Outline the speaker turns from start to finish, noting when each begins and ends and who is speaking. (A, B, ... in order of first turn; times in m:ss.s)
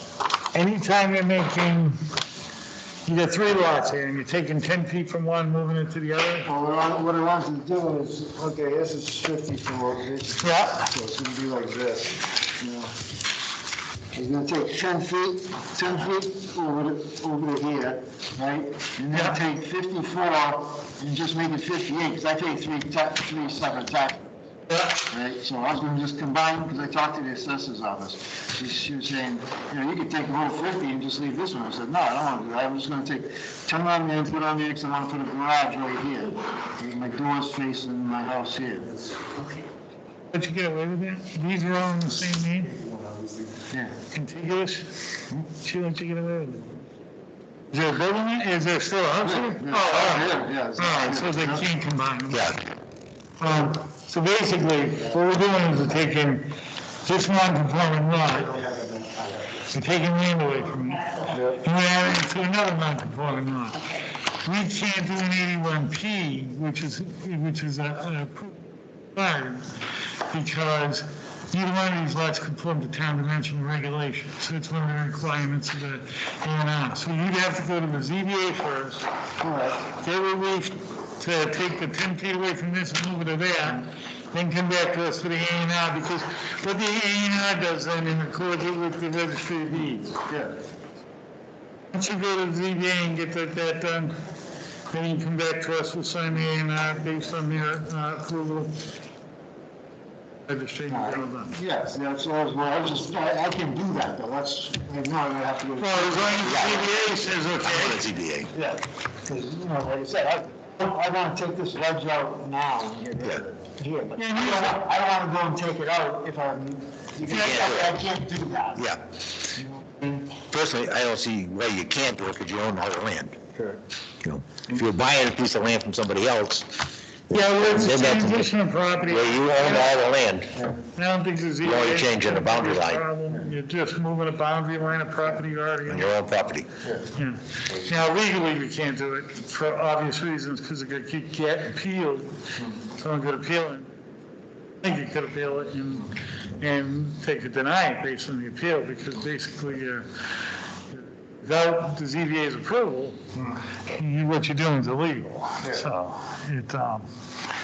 0:00.5-0:02.0 A
0:03.1-0:06.5 A
0:06.5-0:12.9 B
0:10.4-0:10.9 A
0:14.1-0:24.3 B
0:19.1-0:19.4 A
0:24.7-0:25.0 A
0:25.1-0:39.0 B
0:40.3-0:42.7 A
0:43.7-0:44.0 B
0:44.1-0:44.9 A
0:45.5-0:46.8 A
0:47.7-0:52.5 A
0:49.2-0:51.7 B
0:52.3-0:52.6 C
0:53.4-0:56.5 A
0:57.0-0:58.6 A
0:58.6-0:59.5 B
0:59.7-1:01.1 A
1:01.3-1:01.6 B
1:01.6-1:03.8 A
1:04.3-1:09.7 A
1:10.3-1:19.0 A
1:19.4-1:19.8 B
1:19.9-1:30.2 A
1:30.3-1:30.6 B
1:31.9-1:34.2 A
1:34.9-1:38.8 A
1:40.5-1:41.6 A
1:40.9-1:46.8 B
1:45.8-1:48.0 A
1:46.4-1:46.9 C
1:47.6-1:48.5 C
1:48.5-1:58.9 B
1:54.2-1:54.8 A
1:57.3-1:58.0 C
1:58.8-1:59.0 C
1:59.5-2:00.3 B
2:00.4-2:03.4 C
2:03.6-2:03.8 B
2:04.2-2:06.7 C
2:07.3-2:08.5 C
2:07.3-2:10.0 A
2:09.0-2:10.6 C
2:11.0-2:16.1 A
2:11.6-2:13.1 C
2:15.9-2:16.7 C
2:17.2-2:22.4 A
2:22.9-2:23.9 A
2:24.8-2:30.1 A
2:30.9-2:33.2 A
2:33.9-2:37.1 A